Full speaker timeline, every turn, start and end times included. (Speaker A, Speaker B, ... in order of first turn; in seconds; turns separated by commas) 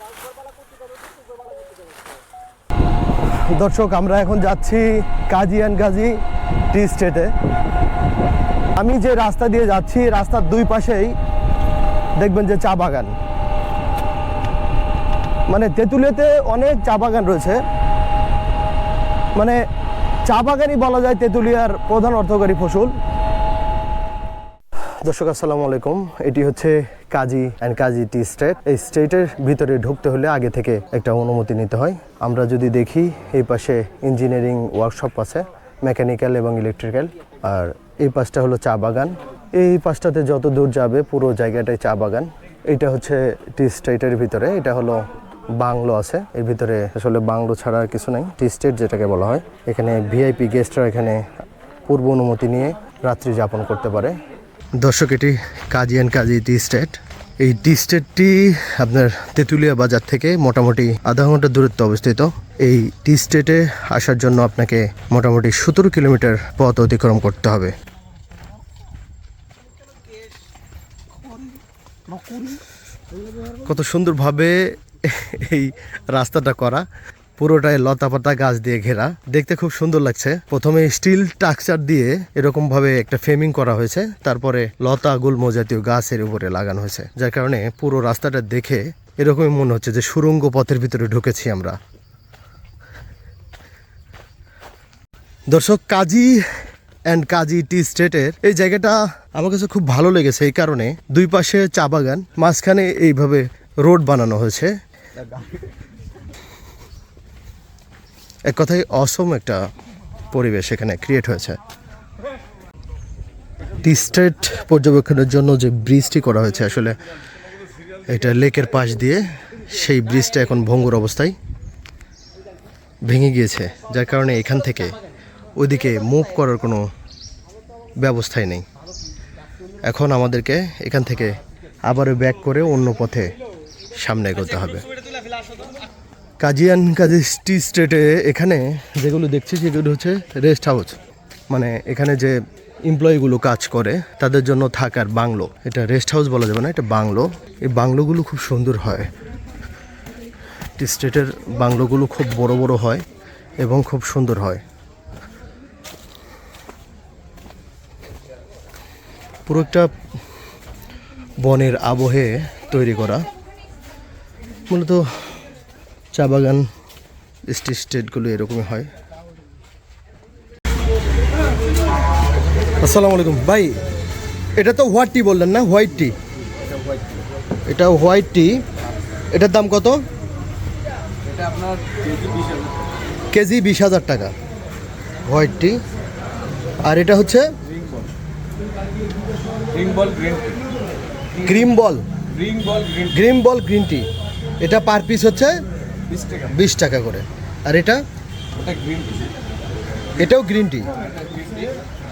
Speaker A: 3.5-6.2, Speaker A: 6.7-7.3, Speaker A: 8.8-11.1, Speaker A: 12.2-13.2, Speaker A: 15.5-17.6, Speaker A: 19.4-19.6, Speaker A: 20.2-22.9, Speaker A: 25.1-45.0, Speaker A: 45.6-51.2, Speaker A: 51.9-54.2, Speaker A: 54.8-67.7, Speaker A: 73.6-76.9, Speaker A: 77.4-91.8, Speaker A: 95.5-96.4, Speaker A: 97.1-104.7, Speaker A: 108.5-109.6, Speaker A: 110.3-111.6, Speaker A: 113.8-117.0, Speaker A: 118.1-121.3, Speaker A: 123.1-125.0, Speaker A: 125.6-126.8, Speaker A: 128.0-128.6, Speaker A: 129.8-133.3, Speaker A: 133.9-134.9, Speaker A: 136.4-141.0, Speaker A: 141.5-149.1, Speaker A: 150.8-153.0, Speaker A: 153.6-154.6, Speaker A: 159.5-159.9, Speaker A: 161.4-163.2, Speaker A: 164.7-165.1, Speaker A: 166.1-166.7, Speaker A: 167.5-168.9, Speaker A: 172.8-173.8, Speaker A: 174.6-176.1, Speaker B: 176.4-177.2, Speaker A: 177.7-178.6, Speaker A: 179.3-180.0, Speaker B: 181.2-182.9, Speaker A: 183.3-184.3, Speaker A: 185.2-185.8, Speaker A: 186.8-187.5, Speaker B: 187.6-188.1, Speaker B: 189.7-190.6, Speaker B: 191.4-191.6, Speaker A: 191.4-192.0, Speaker B: 192.2-193.3, Speaker A: 193.1-194.1, Speaker A: 194.6-195.6, Speaker B: 196.0-196.6, Speaker A: 196.5-198.0, Speaker B: 198.5-199.4, Speaker A: 200.2-200.9, Speaker B: 200.9-201.8